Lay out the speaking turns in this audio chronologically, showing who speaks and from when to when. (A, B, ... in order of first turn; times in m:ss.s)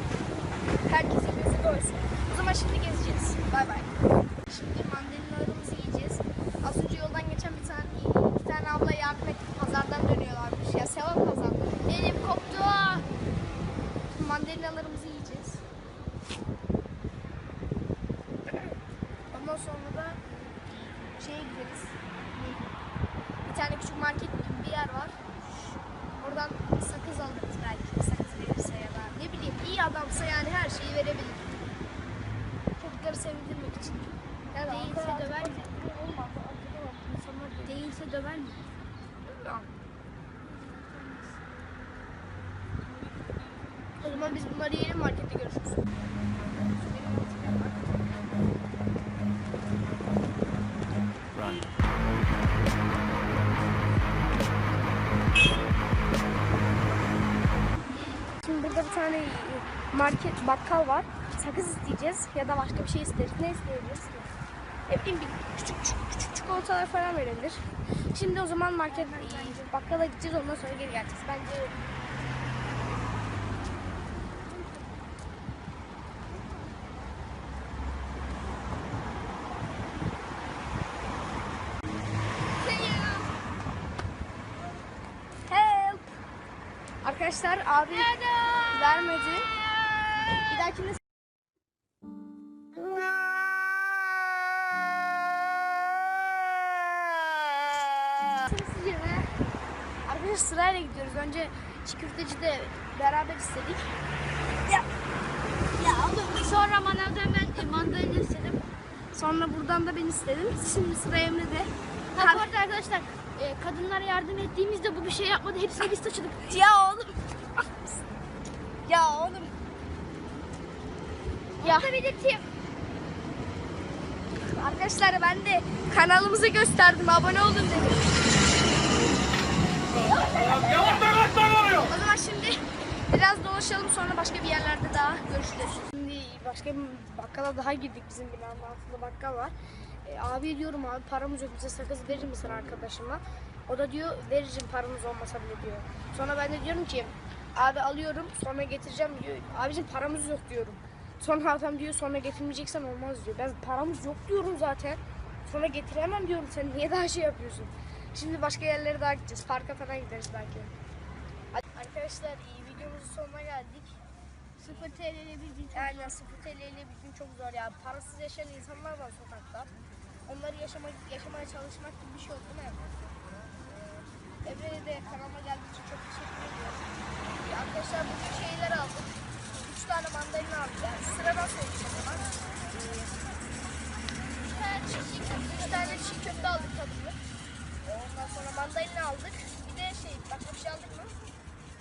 0:00.8-0:03.9 A
0:04.5-0:11.9 A
0:11.8-0:13.1 B
0:14.1-0:15.6 A
0:19.3-0:20.2 A
0:21.1-0:22.0 A
0:23.4-0:25.2 A
0:26.2-0:31.5 A
0:32.8-0:37.9 A
0:34.7-0:35.7 B
0:37.6-0:38.6 B
0:39.2-0:39.7 A
0:44.0-0:45.8 A
0:46.8-0:48.0 A
0:58.4-1:04.3 A
1:04.9-1:11.7 A
1:08.9-1:09.7 B
1:22.6-1:23.3 B
1:25.5-1:26.0 A
1:27.0-1:28.1 A
1:27.8-1:29.0 B
1:28.6-1:29.5 A
1:30.5-1:31.0 A
1:38.4-1:39.3 B
1:40.0-1:43.9 A
1:45.8-1:48.6 B
1:49.1-1:52.5 A
1:52.1-1:56.5 B
1:56.5-1:58.0 A
1:58.8-1:59.5 A
2:01.6-2:02.5 B
2:01.6-2:01.9 A
2:04.5-2:08.0 A
2:10.0-2:11.6 B
2:11.5-2:40.7 A
2:41.5-2:44.0 A
2:44.6-2:46.2 B
2:45.7-2:49.7 A
2:50.3-2:52.8 A
2:53.7-3:03.1 A
3:04.5-3:06.3 B
3:04.6-3:07.2 A
3:07.8-3:11.2 A